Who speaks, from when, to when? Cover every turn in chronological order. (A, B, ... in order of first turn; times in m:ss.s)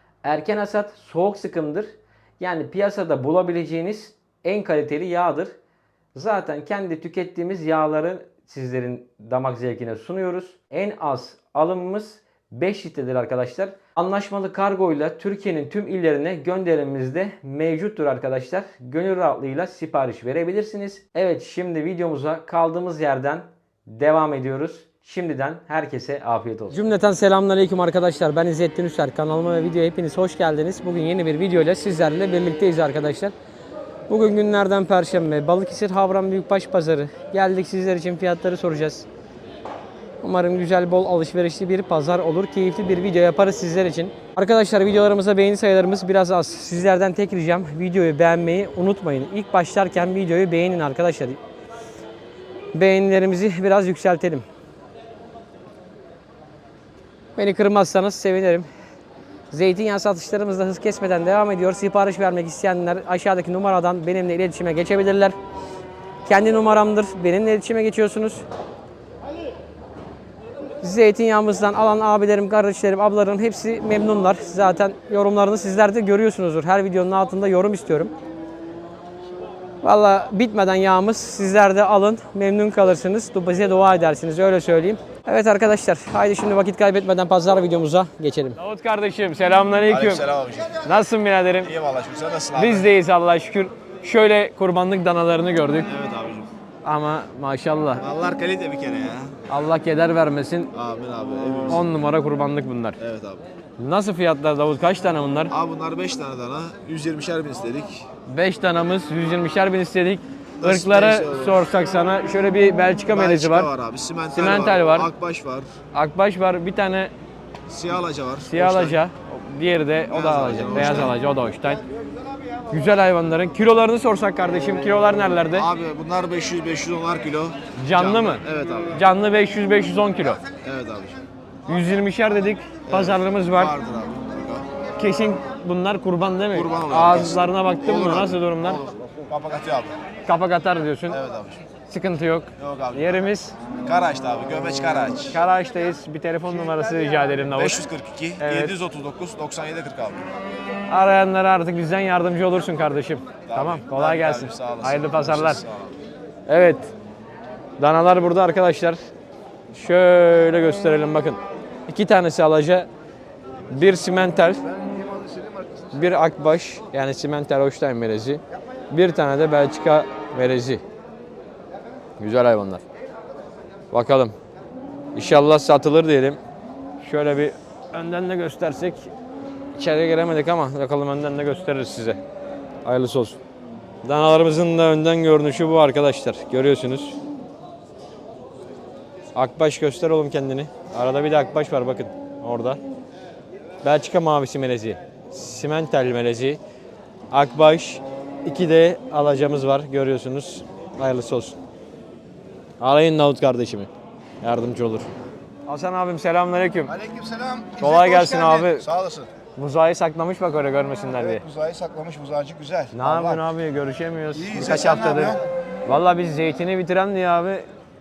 0:00.2-0:05.6 A
0:06.2-0:33.3 A
0:34.1-0:39.1 A
0:40.2-0:51.4 A
0:52.7-0:54.4 A
0:57.4-0:58.7 A
0:59.5-1:05.4 A
1:06.3-1:08.4 A
1:10.8-1:18.1 A
1:19.8-1:30.3 A
1:29.8-1:30.9 B
1:30.8-1:31.7 A
1:31.6-1:32.9 B
1:32.6-1:35.9 A
1:35.8-1:36.5 B
1:36.8-1:38.0 A
1:38.0-1:39.3 B
1:39.5-1:40.7 A
1:40.7-1:41.9 B
1:41.7-1:43.0 A
1:43.0-1:43.4 B
1:43.8-1:45.5 A
1:45.5-1:48.1 B
1:48.3-1:53.7 A
1:50.6-1:51.6 B
1:53.1-1:55.7 B
1:54.3-1:55.1 A
1:55.9-1:57.1 A
1:57.7-1:59.0 B
1:58.4-2:01.8 A
2:00.1-2:01.2 B
2:02.7-2:05.7 A
2:05.5-2:09.0 B
2:07.8-2:10.4 A
2:10.6-2:11.2 B
2:11.7-2:13.7 A
2:12.9-2:14.6 B
2:15.0-2:18.8 A
2:16.5-2:19.9 B
2:20.3-2:21.2 A
2:21.1-2:21.6 B
2:21.9-2:23.6 A
2:22.6-2:23.3 B
2:23.8-2:25.4 B
2:25.3-2:27.8 A
2:26.5-2:26.8 B
2:27.5-2:30.3 B
2:28.4-2:28.8 A
2:30.9-2:35.6 A
2:33.5-2:36.0 B
2:36.5-2:36.9 A
2:37.8-2:39.0 A
2:39.7-2:42.9 A
2:43.7-2:44.6 A
2:44.6-2:46.0 B
2:45.9-2:50.8 A
2:52.2-2:52.8 A
2:53.9-2:54.4 A
2:55.2-2:56.4 A
2:57.0-2:59.1 A
2:59.8-3:02.2 A
3:02.8-3:03.4 A
3:04.0-3:07.2 A
3:09.4-3:12.8 A
3:13.8-3:16.6 A
3:17.3-3:21.6 A
3:22.8-3:23.9 A
3:24.4-3:25.1 A
3:25.7-3:26.9 A
3:26.8-3:29.3 B
3:27.8-3:28.9 A
3:29.6-3:31.4 A
3:31.2-3:33.4 B
3:32.9-3:35.4 A
3:34.3-3:35.4 B
3:35.9-3:37.7 A